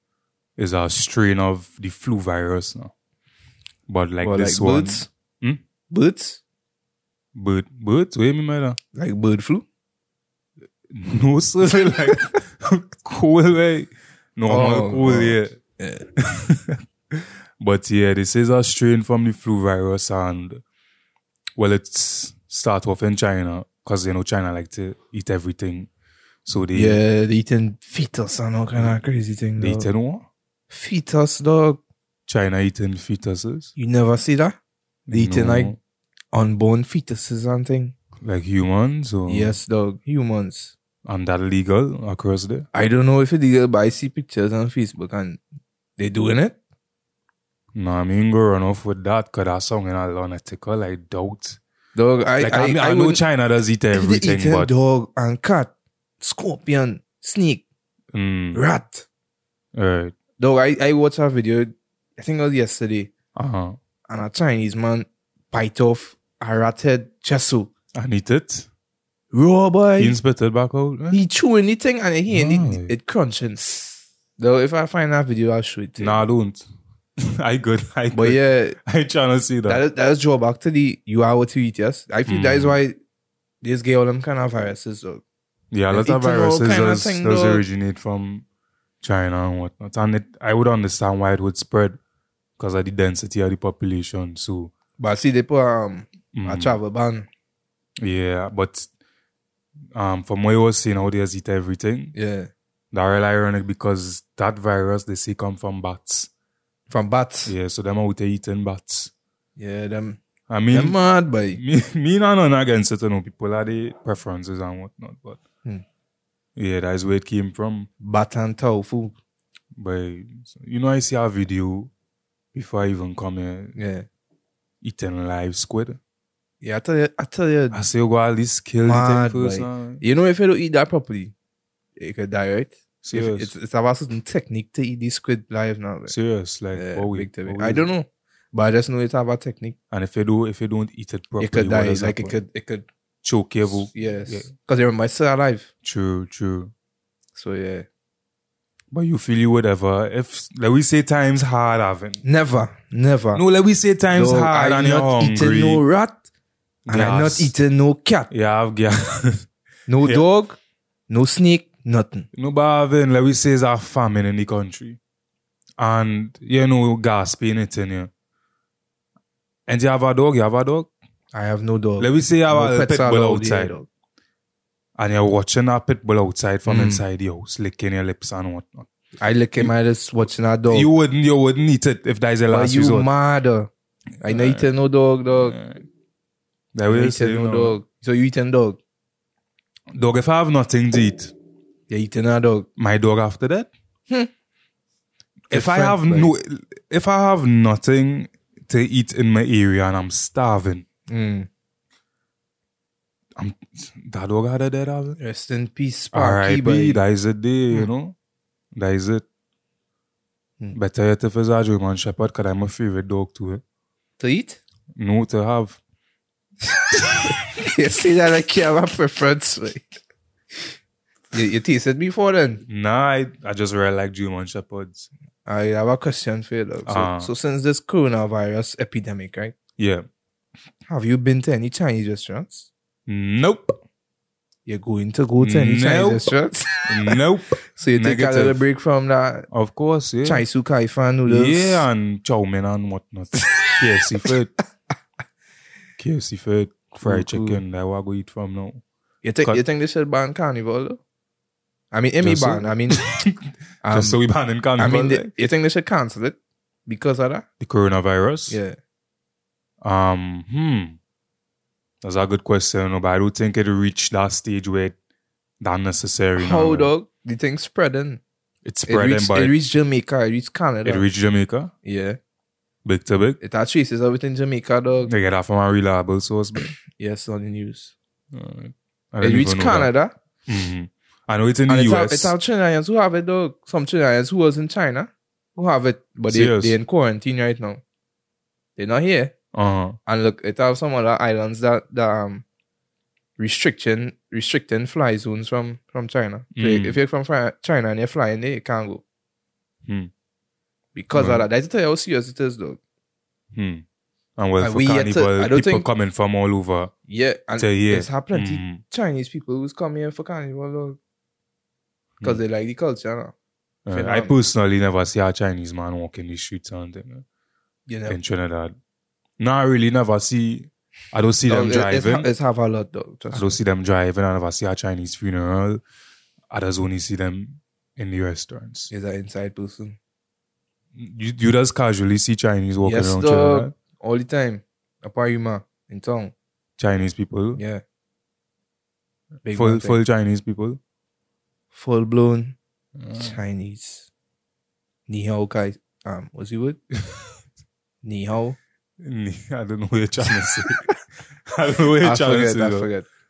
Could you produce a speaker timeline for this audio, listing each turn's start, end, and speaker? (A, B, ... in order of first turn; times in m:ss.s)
0:00.6-0:02.9 A
0:03.9-0:05.6 A
0:04.2-0:05.1 B
0:05.9-0:06.4 B
0:07.3-0:08.8 A
0:08.9-0:09.6 B
0:10.9-0:15.6 A
0:14.5-0:16.0 B
0:16.2-0:20.6 A
0:21.6-0:25.9 A
0:26.4-0:27.0 A
0:26.7-0:29.9 B
0:29.6-0:30.3 A
0:30.7-0:31.8 B
0:32.3-0:33.7 A
0:33.8-0:34.6 B
0:35.1-0:35.8 A
0:35.1-0:35.7 B
0:36.3-0:37.9 B
0:38.2-0:39.5 A
0:39.3-0:40.8 B
0:41.0-0:42.7 A
0:42.7-0:45.4 B
0:46.0-0:46.6 B
0:47.7-0:51.6 A
0:51.9-0:53.2 B
0:52.4-0:54.7 A
0:53.9-0:57.6 B
0:58.1-0:58.6 A
0:58.5-0:59.0 B
0:59.7-1:00.1 A
1:00.4-1:03.1 B
1:03.4-1:03.8 A
1:04.1-1:07.7 B
1:07.9-1:08.7 A
1:09.3-1:10.1 B
1:10.0-1:11.2 A
1:11.1-1:16.2 B
1:12.3-1:12.9 A
1:16.0-1:16.6 A
1:17.2-1:19.8 A
1:18.1-1:18.8 B
1:19.7-1:23.0 B
1:22.3-1:22.8 A
1:23.6-1:25.2 B
1:25.7-1:28.4 A
1:25.9-1:27.6 B
1:29.0-1:32.0 A
1:32.6-1:34.7 A
1:35.0-1:37.3 B
1:36.3-1:36.8 A
1:38.0-1:38.9 A
1:39.9-1:42.1 A
1:42.1-1:42.5 B
1:42.9-1:46.3 A
1:46.9-1:47.5 B
1:47.4-1:49.1 A
1:49.6-1:51.6 B
1:50.5-1:51.0 A
1:51.5-1:55.4 A
1:56.6-1:57.9 A
1:58.0-1:59.2 B
1:59.8-2:01.9 A
2:02.5-2:03.8 A
2:03.8-2:04.0 B
2:04.8-2:06.0 A
2:06.6-2:07.8 B
2:07.7-2:10.0 A
2:08.8-2:11.3 B
2:12.0-2:16.1 B
2:13.0-2:13.5 A
2:16.1-2:17.9 A
2:16.7-2:19.8 B
2:19.9-2:22.4 A
2:21.4-2:22.9 B
2:23.2-2:24.5 A
2:23.8-2:25.7 B
2:25.8-2:26.7 A
2:27.3-2:27.9 B
2:28.9-2:32.2 A
2:32.2-2:33.4 B
2:33.3-2:35.8 A
2:34.1-2:36.2 B
2:36.8-2:37.5 A
2:36.9-2:38.3 B
2:38.3-2:39.5 A
2:39.9-2:42.3 B
2:42.3-2:45.0 A
2:45.8-2:48.1 A
2:49.7-2:50.9 A
2:51.3-2:53.9 B
2:52.0-2:53.8 A
2:55.0-2:58.9 A
2:56.6-2:57.0 B
2:59.2-3:00.9 B
3:00.7-3:03.1 A
3:02.5-3:03.7 B
3:04.2-3:04.7 A
3:04.2-3:05.6 B
3:05.3-3:05.8 A
3:06.7-3:07.8 A
3:06.9-3:08.8 B
3:09.9-3:11.3 A
3:11.9-3:12.7 B
3:12.8-3:13.7 A
3:15.5-3:20.8 A
3:15.5-3:16.3 B
3:21.1-3:21.5 B
3:23.4-3:25.2 A
3:25.2-3:27.0 B
3:26.1-3:28.2 A
3:28.7-3:29.2 A
3:30.7-3:33.6 A
3:34.2-3:34.6 B
3:35.0-3:35.8 A
3:37.1-3:39.9 B
3:41.3-3:42.6 B
3:42.6-3:45.1 A
3:45.4-3:49.5 B
3:46.8-3:47.3 A
3:49.8-3:50.0 A
3:50.9-3:52.7 B
3:53.1-3:53.8 A
3:54.6-3:57.2 B
3:55.4-3:56.3 A
3:56.8-3:58.6 A
3:57.7-3:59.5 B
3:59.5-4:00.4 A
4:00.2-4:01.8 B
4:01.2-4:04.5 A
4:03.4-4:03.7 B
4:06.0-4:08.8 A
4:07.0-4:07.6 B
4:09.2-4:11.0 B
4:11.9-4:13.0 B
4:12.2-4:15.3 A
4:13.8-4:14.2 B
4:14.8-4:17.4 B
4:17.6-4:18.6 A
4:18.5-4:18.8 B
4:19.8-4:21.0 A
4:22.0-4:24.9 A
4:25.6-4:26.9 A
4:26.4-4:28.2 B
4:28.6-4:29.5 A
4:28.8-4:31.0 B
4:30.8-4:31.7 A
4:31.8-4:32.2 B
4:32.8-4:33.4 A
4:33.4-4:35.1 B
4:35.1-4:36.7 A
4:37.0-4:37.9 B
4:38.3-4:39.9 A
4:39.2-4:40.1 B
4:40.5-4:42.3 A
4:41.7-4:47.8 B
4:46.3-4:46.8 A
4:48.8-4:49.3 B
4:49.5-4:50.0 A
4:50.0-4:52.4 B
4:53.4-4:59.0 B
4:56.5-4:57.0 A
4:59.8-5:00.1 A
5:00.9-5:02.8 B
5:01.1-5:01.5 A
5:03.5-5:03.8 A
5:04.4-5:06.9 A
5:04.6-5:05.8 B
5:07.1-5:11.0 B
5:07.6-5:08.8 A
5:12.2-5:13.3 B
5:13.8-5:17.2 A
5:13.9-5:14.4 B
5:17.9-5:18.2 B
5:18.1-5:18.7 A
5:19.4-5:22.3 A
5:21.5-5:23.6 B
5:23.3-5:25.8 A
5:26.5-5:28.9 A
5:28.9-5:30.0 B
5:30.9-5:33.7 A
5:32.8-5:36.3 B
5:36.8-5:37.6 A
5:37.5-5:37.8 B
5:39.4-5:40.0 B
5:39.5-5:40.8 A
5:41.7-5:42.6 B
5:43.0-5:43.4 A
5:43.1-5:44.1 B
5:45.1-5:46.8 B
5:48.0-5:48.6 B
5:49.0-5:50.9 A
5:51.5-5:52.9 A
5:52.0-5:53.0 B